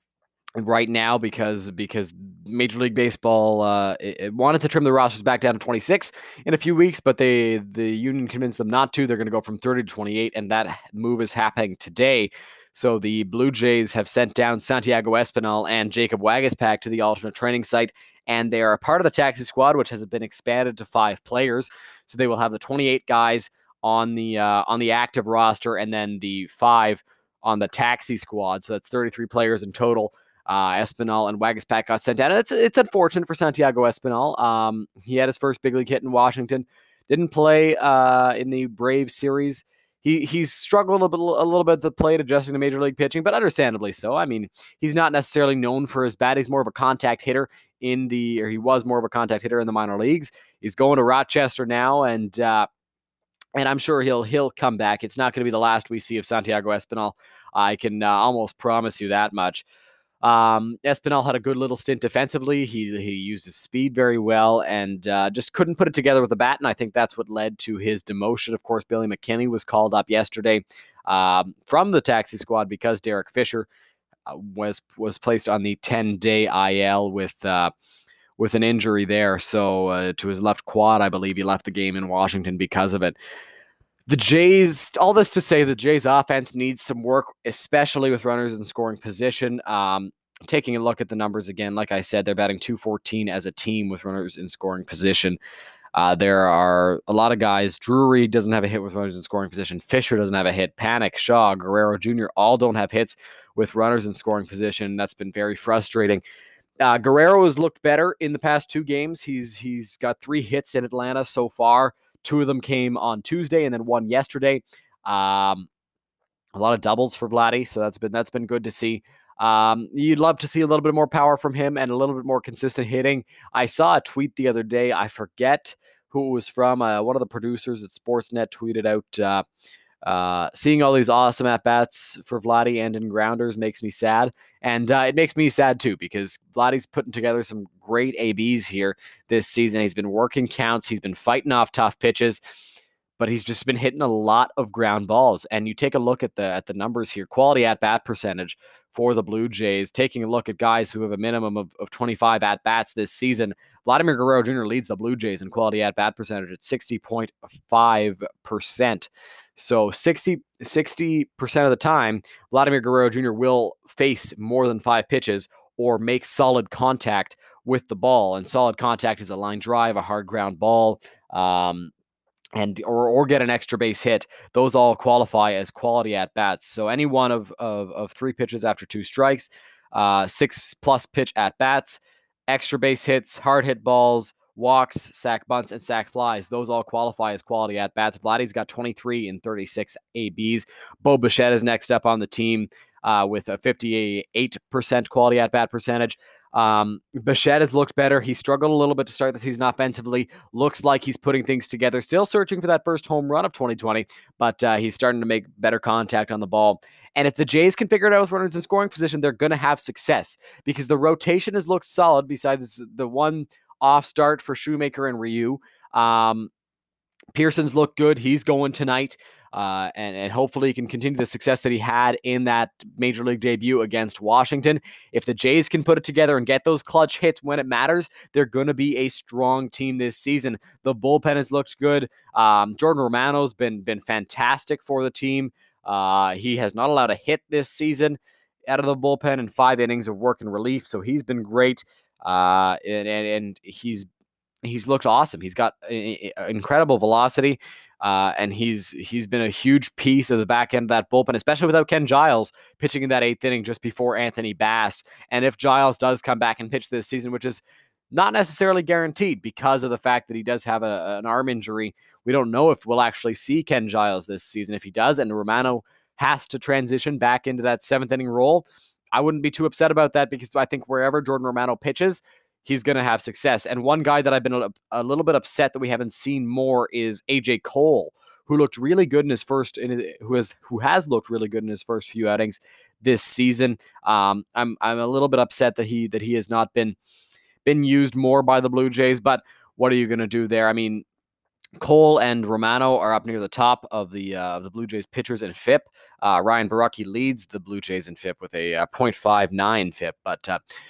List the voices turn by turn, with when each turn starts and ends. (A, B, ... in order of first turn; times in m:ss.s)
0:00.6-0:52.7 A
0:53.6-0:59.6 A
1:00.2-1:13.7 A
1:14.3-1:17.7 A
1:18.4-1:23.2 A
1:24.1-1:35.4 A
1:35.9-1:46.2 A
1:46.8-1:55.7 A
1:56.5-2:09.4 A
2:10.0-2:22.4 A
2:23.2-2:51.9 A
2:52.6-3:36.5 A
3:37.3-4:04.1 A
4:04.6-4:47.0 A
4:47.6-4:51.0 A
4:51.8-5:00.6 A